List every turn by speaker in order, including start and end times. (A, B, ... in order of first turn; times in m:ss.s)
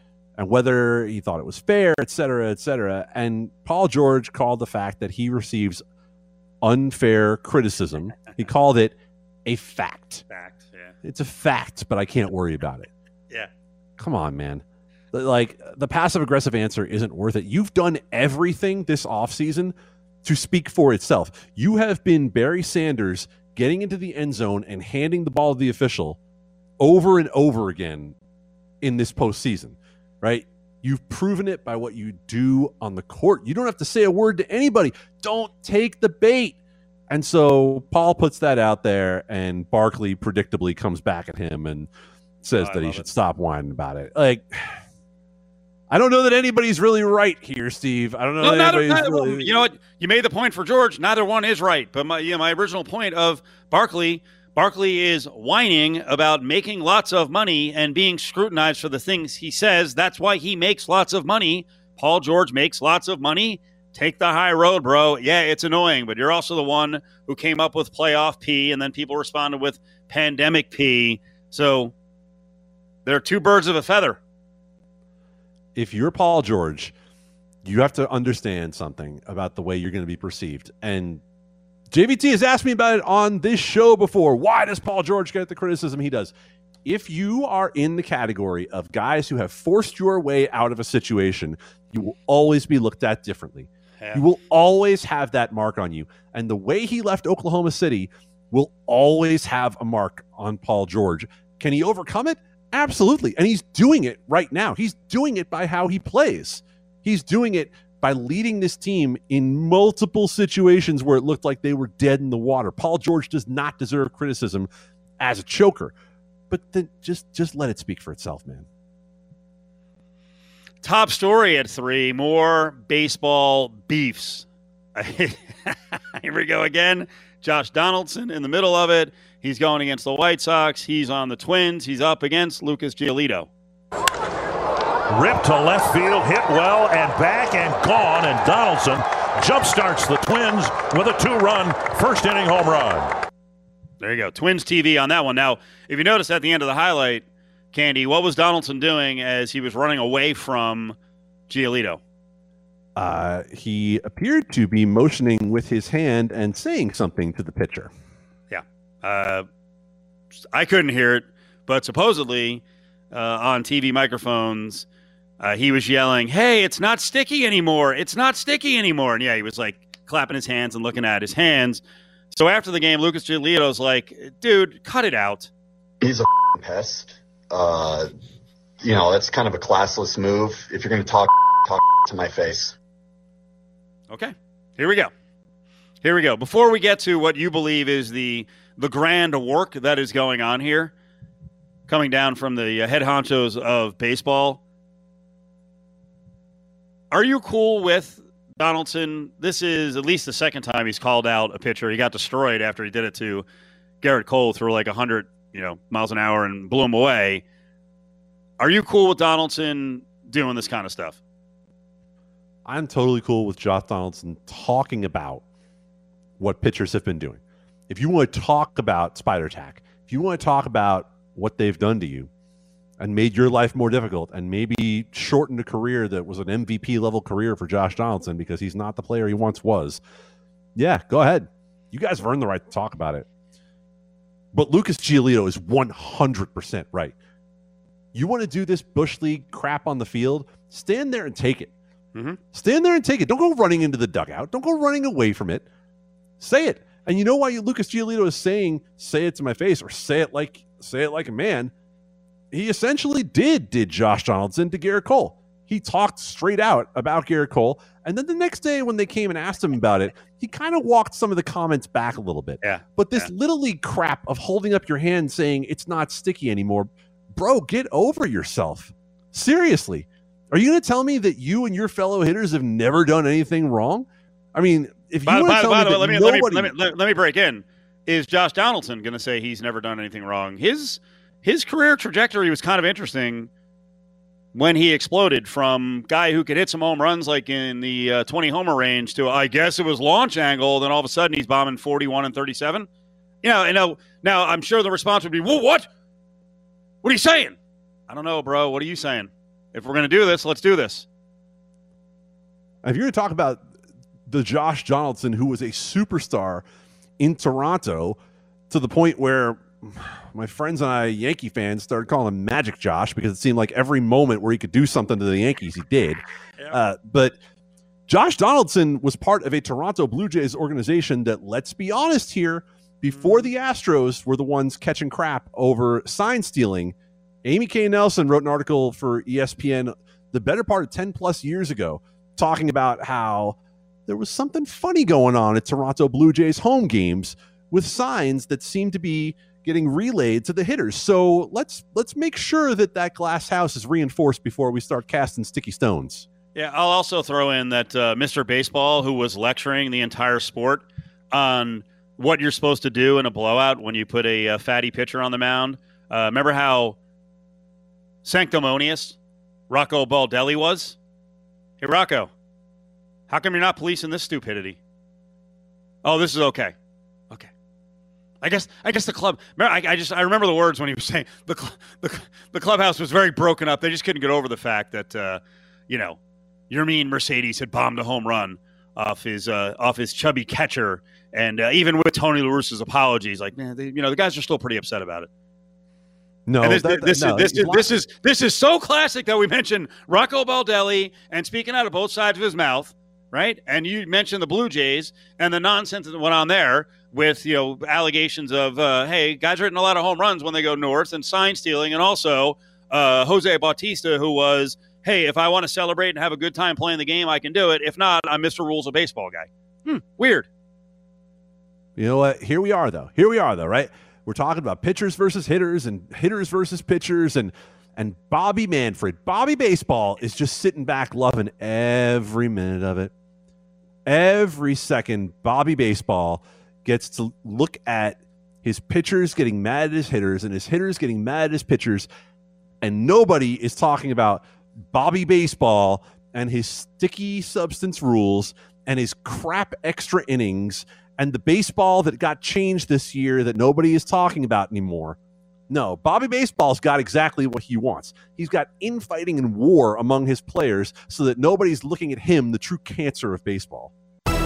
0:00.4-0:05.8 A
0:06.6-0:10.2 A
0:10.3-0:10.9 B
0:11.0-0:12.9 A
0:14.0-0:26.2 A
0:26.8-0:28.2 A
0:28.8-0:36.6 A
0:37.1-0:41.9 A
0:42.4-0:44.8 A
0:42.6-0:43.0 B
0:45.9-0:49.5 A
0:48.4-1:11.9 B
1:13.0-1:14.2 B
1:15.7-1:16.9 A
1:17.6-1:21.2 A
1:21.9-1:26.3 A
1:26.8-1:55.9 A
1:56.5-1:58.7 A
2:00.8-2:13.5 B
2:15.1-2:23.2 C
2:24.0-2:31.0 B
2:31.5-2:32.0 B
2:33.0-2:37.9 A
2:38.5-2:39.4 B
2:40.3-2:44.8 B
2:45.4-2:55.5 B
2:56.0-2:58.1 D
2:58.8-3:02.8 D
3:04.1-3:05.1 B
3:06.0-3:10.9 B
3:11.9-3:14.6 B
3:17.1-3:23.4 B
3:24.0-3:27.4 B
3:28.6-3:31.2 B
3:32.6-3:35.4 A
3:36.4-3:42.3 A
3:43.0-3:50.0 A
3:50.8-3:53.2 A
3:54.5-3:57.1 A
3:58.1-4:01.7 A
4:02.5-4:05.6 A
4:06.4-4:11.7 A
4:12.5-4:36.7 A
4:22.6-4:23.3 B
4:35.2-4:43.5 B
4:44.5-4:52.9 B
4:53.4-4:55.9 B
4:57.0-4:57.6 B
4:58.1-5:01.0 B
5:02.8-5:03.6 A
5:04.3-5:06.6 A
5:07.2-5:08.2 A
5:08.7-5:17.4 A
5:18.1-5:46.2 A
5:23.1-5:23.5 B
5:46.5-5:57.0 B
5:58.2-5:59.2 B
5:59.7-6:01.0 B
6:01.8-6:02.3 B
6:03.3-6:04.8 B
6:06.0-6:06.7 B
6:08.4-6:16.2 B
6:16.7-6:25.3 B
6:26.4-6:27.9 A
6:26.6-6:50.5 B
6:52.0-7:03.1 A
7:04.0-7:12.1 A
7:12.8-7:25.2 A
7:25.7-7:33.9 A